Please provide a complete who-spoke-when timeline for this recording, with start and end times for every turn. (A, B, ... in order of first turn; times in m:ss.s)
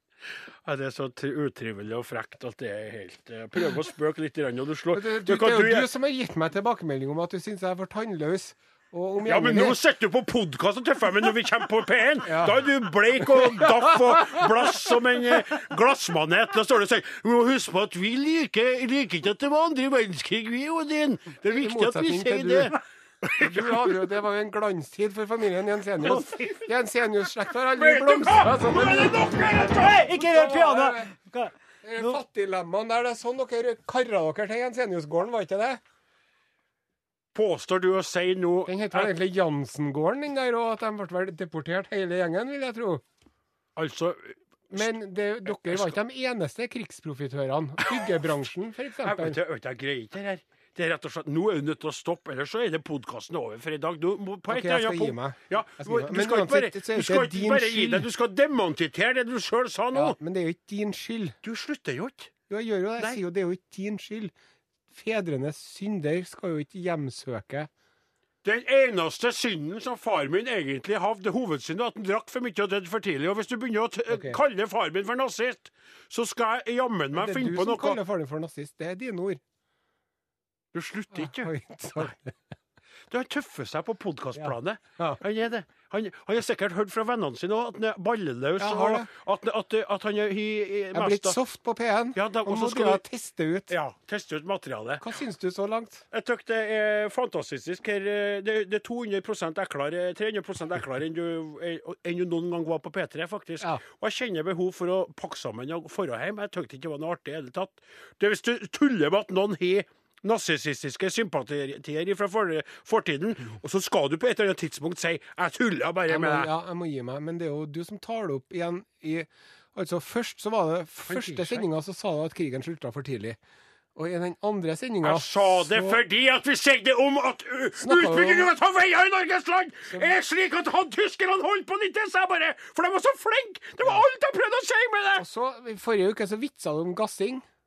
0:00.7-0:05.9 A
0:04.9-0:09.8 B
0:09.2-0:24.0 A
0:12.2-0:12.7 B
0:13.3-0:13.6 B
0:21.5-0:22.8 B
0:23.4-0:31.1 B
0:26.0-0:26.6 A
0:27.7-0:30.1 A
0:29.7-0:32.2 C
0:31.8-0:35.8 B
0:37.3-0:39.1 A
0:38.7-0:43.0 B
0:43.8-0:46.0 A
0:44.7-0:49.4 B
0:49.0-1:00.2 A
0:54.5-0:58.1 B
0:59.9-1:01.4 B
1:01.4-1:02.3 A
1:02.5-1:04.3 B
1:04.9-1:07.7 B
1:08.4-1:18.0 A
1:14.1-1:14.4 B
1:17.2-1:19.4 B
1:20.7-1:21.5 A
1:21.1-1:22.3 B
1:23.1-1:31.4 A
1:24.4-1:25.2 B
1:28.6-1:29.1 B
1:30.9-1:33.7 B
1:32.2-1:33.0 A
1:33.7-1:35.0 A
1:35.0-1:36.0 B
1:36.1-1:56.5 A
1:56.1-2:03.4 B
2:01.0-2:01.7 A
2:04.0-2:06.0 B
2:05.0-2:15.2 A
2:07.8-2:08.5 B
2:09.9-2:10.2 B
2:15.2-2:17.4 B